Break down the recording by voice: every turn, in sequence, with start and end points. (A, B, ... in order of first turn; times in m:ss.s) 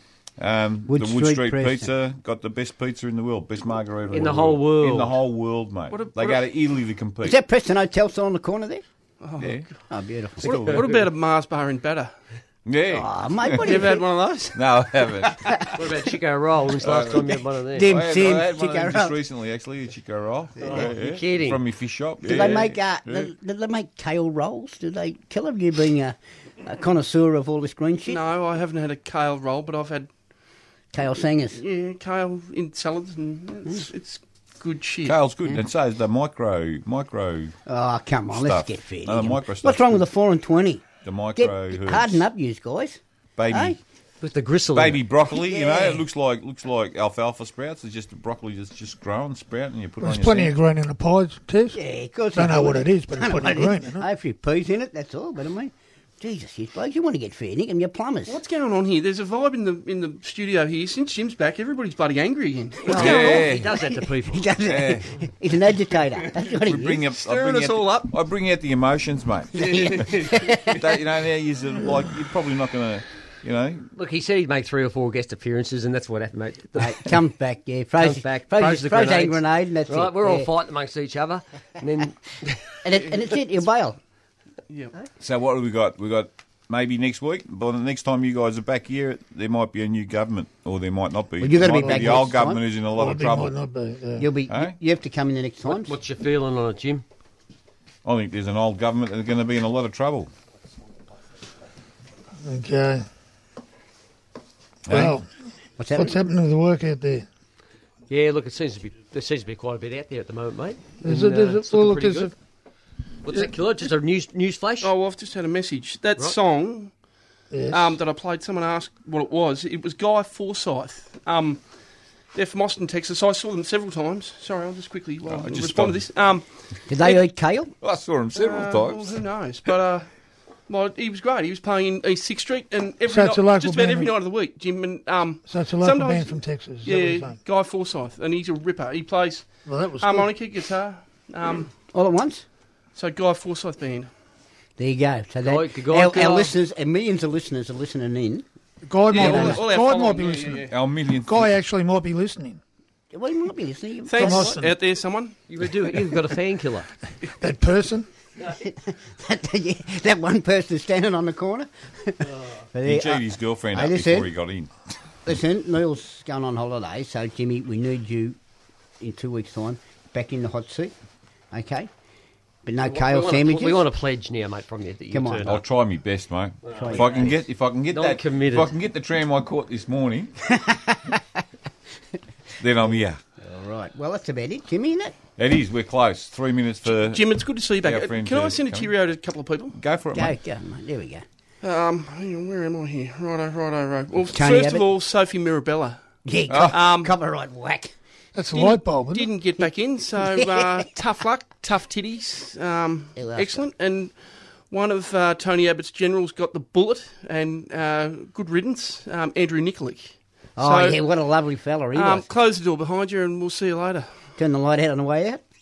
0:00.4-0:07.4 A
0:00.9-0:01.9 B
0:04.1-0:05.2 C
0:05.9-0:06.4 D
0:07.2-0:08.8 B
0:09.2-0:09.8 D
0:09.4-0:09.7 A
0:09.9-0:10.6 B
0:10.4-0:10.9 A
0:10.4-0:12.1 D
0:10.4-0:11.0 C
0:12.7-0:13.9 A
0:12.9-0:14.6 B
0:13.6-0:14.5 D
0:14.6-0:15.6 A
0:15.3-0:15.7 B
0:15.7-0:17.9 C
0:16.8-0:23.3 A
0:17.7-0:19.2 B
0:20.6-0:21.6 C
0:22.2-0:28.2 B
0:28.1-0:30.1 D
0:30.9-0:31.6 B
0:31.6-0:35.2 D
0:35.0-0:37.6 A
0:37.7-0:43.8 B
0:38.3-0:40.0 A
0:41.0-0:42.2 A
0:43.4-0:43.8 A
0:44.2-0:45.0 C
0:44.8-0:50.5 A
0:45.3-0:46.0 B
0:50.0-0:51.8 E
0:51.7-0:58.4 B
0:52.4-0:54.1 E
0:58.3-1:03.2 D
1:02.8-1:04.5 C
1:02.9-1:03.7 A
1:03.0-1:07.0 B
1:04.6-1:05.2 A
1:06.5-1:13.9 A
1:07.1-1:08.1 D
1:09.5-1:10.9 B
1:09.6-1:10.6 D
1:14.0-1:17.2 C
1:16.8-1:20.5 B
1:18.0-1:22.8 C
1:22.8-1:24.0 B
1:25.2-1:33.5 A
1:31.4-1:32.6 B
1:31.8-1:32.2 E
1:32.9-1:34.3 E
1:34.2-1:35.9 B
1:34.5-1:34.8 A
1:35.7-1:37.0 C
1:38.0-1:40.3 A
1:42.4-1:43.1 E
1:44.9-1:45.2 A
1:44.9-1:45.3 E
1:45.8-1:46.2 B
1:46.0-1:47.3 E
1:48.1-1:52.3 C
1:51.0-1:52.3 E
1:53.2-1:54.9 C
1:54.8-1:56.9 D
1:57.5-1:58.0 E
1:57.7-2:01.6 D
2:02.3-2:06.5 D
2:05.3-2:06.0 A
2:06.9-2:07.7 B
2:07.8-2:09.2 A
2:08.3-2:10.1 D
2:10.7-2:21.7 D
2:13.1-2:14.1 E
2:15.5-2:17.4 E
2:19.6-2:20.3 E
2:21.9-2:22.4 B
2:23.0-2:24.1 D
2:24.8-2:28.4 B
2:25.4-2:26.5 C
2:28.9-2:30.7 E
2:29.1-2:30.8 D
2:29.1-2:29.6 B
2:30.7-2:31.5 A
2:31.2-2:32.6 E
2:33.1-2:34.6 B
2:34.1-2:35.4 D
2:34.2-2:34.8 E
2:35.5-2:36.9 C
2:37.4-2:38.1 E
2:38.5-2:44.3 B
2:42.8-2:44.7 A
2:45.3-2:48.4 B
2:49.0-2:50.9 B
2:51.5-2:51.9 B
2:52.6-2:53.9 B
2:52.8-2:55.6 C
2:55.1-2:55.6 B
2:55.5-3:00.3 A
2:56.7-2:57.4 C
2:56.8-2:57.4 B
2:57.9-2:58.7 C
3:00.5-3:01.4 B
3:02.6-3:03.2 A
3:03.4-3:05.2 B
3:05.4-3:09.0 A
3:06.9-3:09.8 D
3:09.8-3:10.3 A
3:10.1-3:11.2 B
3:11.6-3:16.0 D
3:14.3-3:14.9 B
3:16.2-3:17.9 B
3:16.5-3:16.8 A
3:16.7-3:17.1 D
3:18.4-3:19.3 E
3:18.5-3:24.2 D
3:20.2-3:20.9 B
3:23.2-3:23.6 B
3:24.7-3:31.0 D
3:30.6-3:32.3 B
3:31.9-3:34.1 D
3:34.4-3:35.4 B